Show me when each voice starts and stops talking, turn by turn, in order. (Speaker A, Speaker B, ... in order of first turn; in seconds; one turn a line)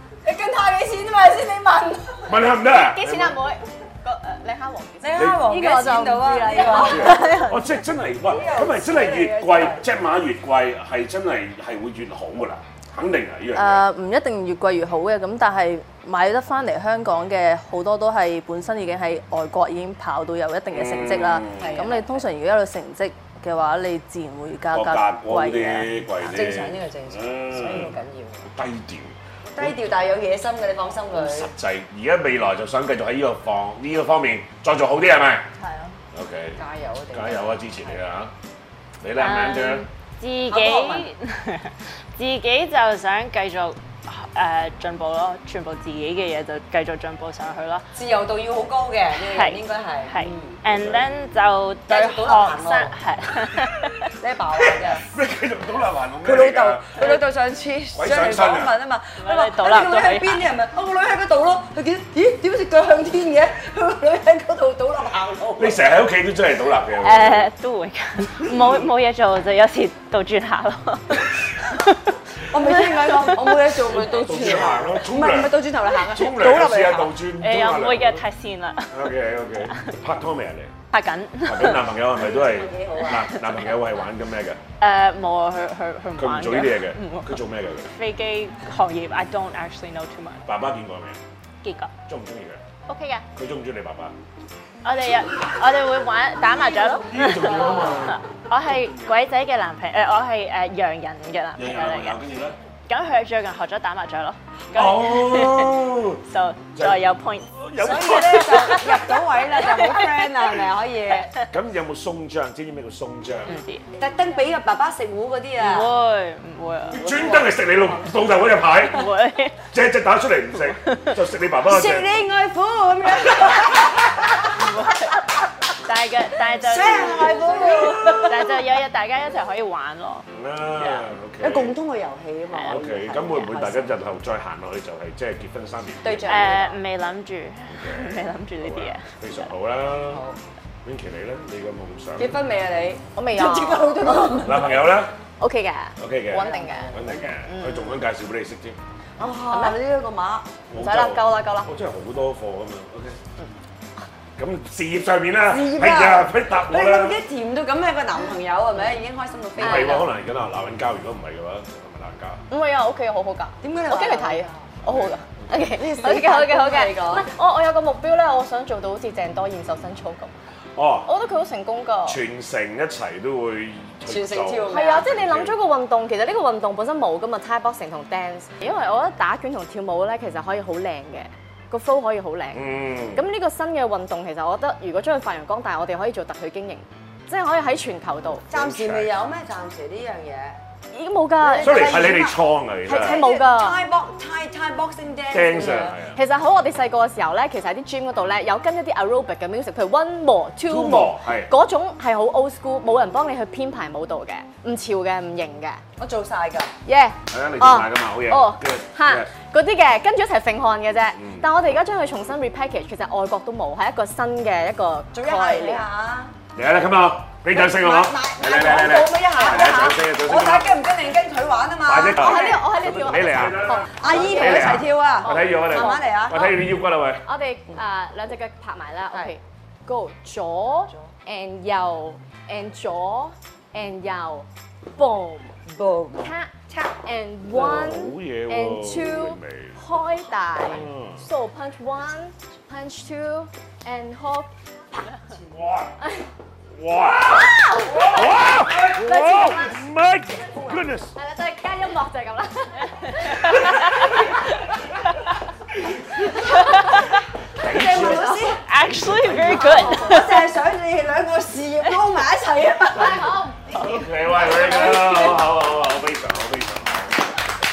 Speaker A: 0.2-2.3
Speaker B: 2.3-3.4
Speaker C: 2.7-7.4
Speaker A: 5.0-7.4
Speaker B: 5.2-5.6
Speaker B: 6.7-13.8
Speaker D: 7.0-7.7
Speaker A: 8.2-9.8
Speaker E: 13.5-25.9
Speaker B: 20.7-21.8
Speaker A: 21.5-22.1
Speaker B: 24.7-29.8
Speaker A: 26.2-28.5
Speaker A: 29.5-31.5
Speaker B: 31.1-35.5
Speaker E: 35.6-36.0
Speaker B: 36.1-38.3
Speaker A: 36.6-38.0
Speaker B: 39.0-39.8
Speaker D: 39.2-47.9
Speaker A: 40.5-41.1
Speaker A: 47.9-50.5
Speaker D: 49.1-54.1
Speaker B: 50.6-51.1
Speaker A: 51.9-52.9
Speaker A: 54.2-55.1
Speaker B: 54.6-57.2
Speaker A: 56.2-65.8
Speaker B: 57.9-58.8
Speaker D: 59.2-60.5
Speaker B: 65.6-67.5
Speaker D: 67.0-73.6
Speaker B: 68.5-68.8
Speaker A: 72.5-77.1
Speaker B: 73.9-78.2
Speaker D: 77.4-79.1
Speaker B: 78.9-80.7
Speaker D: 79.7-79.9
Speaker D: 80.9-82.0
Speaker B: 81.4-84.6
Speaker A: 82.2-83.3
Speaker D: 83.3-83.7
Speaker D: 84.8-90.5
Speaker B: 86.1-87.9
Speaker B: 90.5-91.2
Speaker D: 91.6-91.9
Speaker B: 92.1-92.6
Speaker D: 92.9-93.2
Speaker B: 93.3-94.1
Speaker D: 94.8-102.2
Speaker B: 97.0-99.2
Speaker A: 97.5-98.1
Speaker B: 101.5-102.6
Speaker D: 102.9-110.6
Speaker B: 104.7-106.2
Speaker B: 106.7-107.0
Speaker B: 107.5-108.8
Speaker A: 107.8-111.3
Speaker B: 111.5-113.5
Speaker D: 113.5-113.8
Speaker A: 113.9-115.9
Speaker D: 115.6-117.2
Speaker A: 116.9-118.5
Speaker B: 116.9-119.1
Speaker D: 118.8-119.6
Speaker B: 119.7-122.1
Speaker A: 121.7-124.1
Speaker D: 124.5-125.2
Speaker D: 125.8-131.1
Speaker A: 126.5-128.5
Speaker B: 127.8-128.4
Speaker B: 130.3-131.8
Speaker A: 131.4-134.0
Speaker D: 132.5-132.8
Speaker B: 132.7-136.6
Speaker A: 136.0-136.8
Speaker D: 136.2-139.1
Speaker B: 137.7-140.2
Speaker A: 140.1-140.4
Speaker B: 140.8-142.4
Speaker A: 142.2-144.9
Speaker C: 143.2-144.4
Speaker B: 144.4-145.1
Speaker C: 145.4-148.0
Speaker B: 146.0-148.8
Speaker A: 146.4-147.2
Speaker A: 149.2-150.6
Speaker C: 149.4-149.8
Speaker B: 150.7-153.2
Speaker C: 150.8-151.7
Speaker B: 154.4-157.2
Speaker A: 155.4-160.1
Speaker B: 159.6-162.4
Speaker C: 159.6-160.0
Speaker C: 162.5-170.3
Speaker A: 163.6-164.7
Speaker B: 164.8-165.4
Speaker A: 165.6-167.3
Speaker B: 170.8-171.1
Speaker C: 171.0-172.2
Speaker B: 172.1-175.6
Speaker A: 174.1-175.1
Speaker C: 174.7-188.5
Speaker B: 182.5-183.3
Speaker A: 188.5-190.6
Speaker B: 188.5-189.1
Speaker C: 190.9-192.3
Speaker A: 191.4-196.0
Speaker B: 191.6-193.2
Speaker C: 192.8-193.8
Speaker B: 195.3-196.2
Speaker C: 195.6-205.8
Speaker B: 200.7-201.5
Speaker A: 206.0-206.7
Speaker C: 206.8-215.9
Speaker B: 207.3-209.3
Speaker B: 211.2-211.4
Speaker A: 215.1-216.3
Speaker B: 216.5-220.7
Speaker A: 217.5-222.7
Speaker B: 221.8-227.2
Speaker C: 222.1-226.6
Speaker A: 223.8-226.5
Speaker C: 227.2-235.6
Speaker A: 235.7-236.3
Speaker C: 236.2-245.1
Speaker B: 237.5-239.8
Speaker B: 240.6-241.2
Speaker B: 245.5-245.9
Speaker C: 246.0-246.3
Speaker B: 246.7-251.1
Speaker C: 247.0-249.8
Speaker A: 248.0-248.2
Speaker C: 250.4-254.6
Speaker B: 255.9-256.3
Speaker C: 256.2-257.1
Speaker B: 257.6-259.8
Speaker C: 257.6-258.6
Speaker A: 257.7-258.6
Speaker D: 258.6-260.5
Speaker A: 259.3-263.3
Speaker C: 259.5-260.2
Speaker C: 262.9-265.4
Speaker B: 263.0-267.3